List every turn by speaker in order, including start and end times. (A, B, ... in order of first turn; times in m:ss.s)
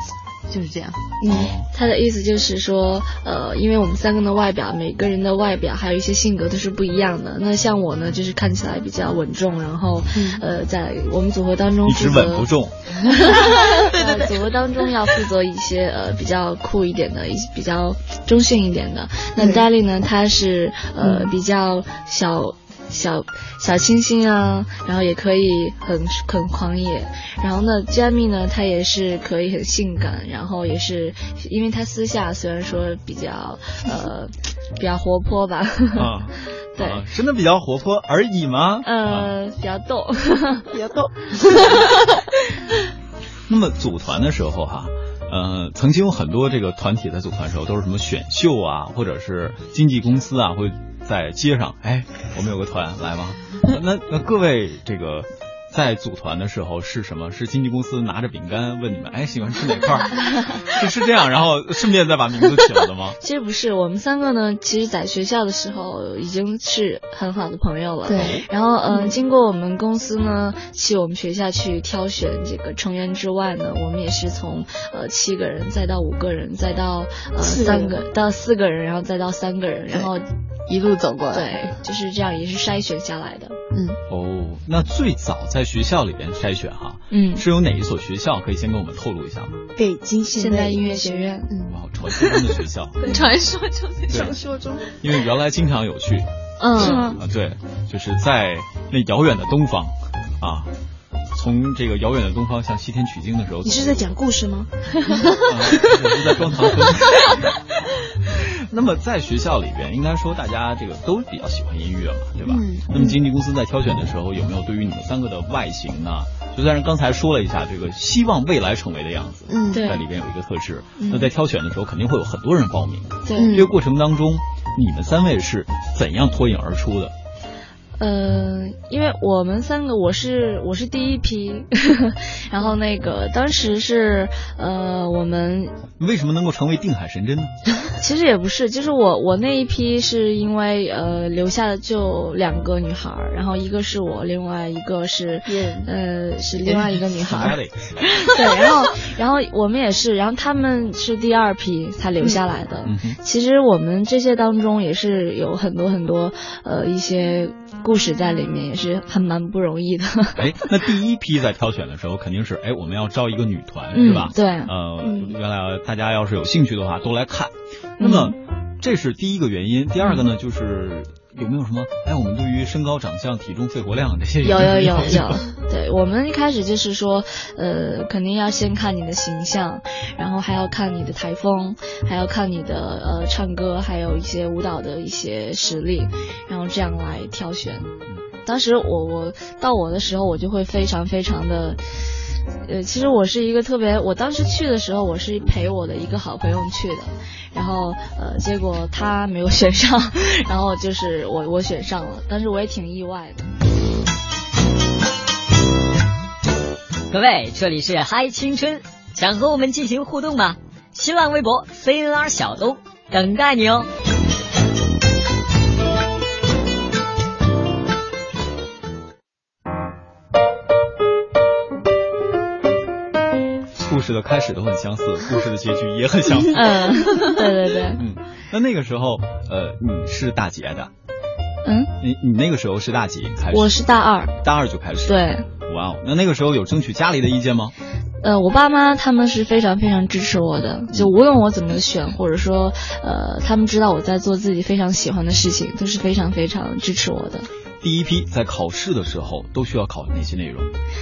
0:00.5-0:01.0 A
0:01.2-0:01.5 B
0:01.3-0:01.7 C
0:01.7-0:12.5 D
0:10.2-0:10.4 A
0:11.8-0:12.7 C
0:13.0-0:36.2 D
0:13.4-0:14.5 B
0:19.4-0:19.6 B
0:36.0-0:39.3 C
0:36.8-0:37.0 D
0:38.8-0:40.7 D
0:40.7-0:41.5 B
0:43.5-1:03.2 C
1:03.2-1:20.2 D
1:08.1-1:08.3 A
1:17.4-1:18.0 B
1:20.7-1:21.8 A
1:21.3-1:23.6 D
1:23.7-1:24.0 A
1:24.1-1:29.6 C
1:27.1-1:27.4 D
1:29.8-1:31.3 B
1:30.3-1:31.5 D
1:31.6-1:33.0 C
1:33.0-1:33.3 B
1:33.0-1:34.3 A
1:34.1-1:34.9 B
1:35.0-1:40.7 C
1:36.6-1:37.0 A
1:36.8-1:37.2 B
1:41.3-1:44.0 C
1:43.6-1:44.7 B
1:45.4-1:47.4 C
1:48.3-2:07.1 C
1:52.5-1:53.0 A
1:59.5-1:59.9 A
1:59.7-2:00.0 D
2:01.0-2:01.3 D
2:03.2-2:03.6 D
2:03.4-2:03.7 A
2:08.0-2:15.8 D
2:16.0-2:17.5 C
2:18.0-2:27.6 D
2:25.5-2:25.9 B
2:26.6-2:28.1 C
2:28.1-2:40.5 D
2:32.8-2:33.2 C
2:40.4-2:55.4 C
2:43.9-2:44.7 D
2:45.0-2:45.4 B
2:48.0-2:48.4 D
2:54.4-3:07.9 D
3:08.4-3:23.5 D
3:27.1-3:33.9 E
3:43.8-3:47.4 C
3:46.5-3:48.0 D
3:47.9-3:50.9 C
3:51.6-3:51.9 D
3:52.0-3:53.9 C
3:53.5-3:54.4 D
3:54.4-3:57.7 C
3:55.1-3:55.5 D
3:58.2-4:07.5 D
4:07.8-4:10.7 C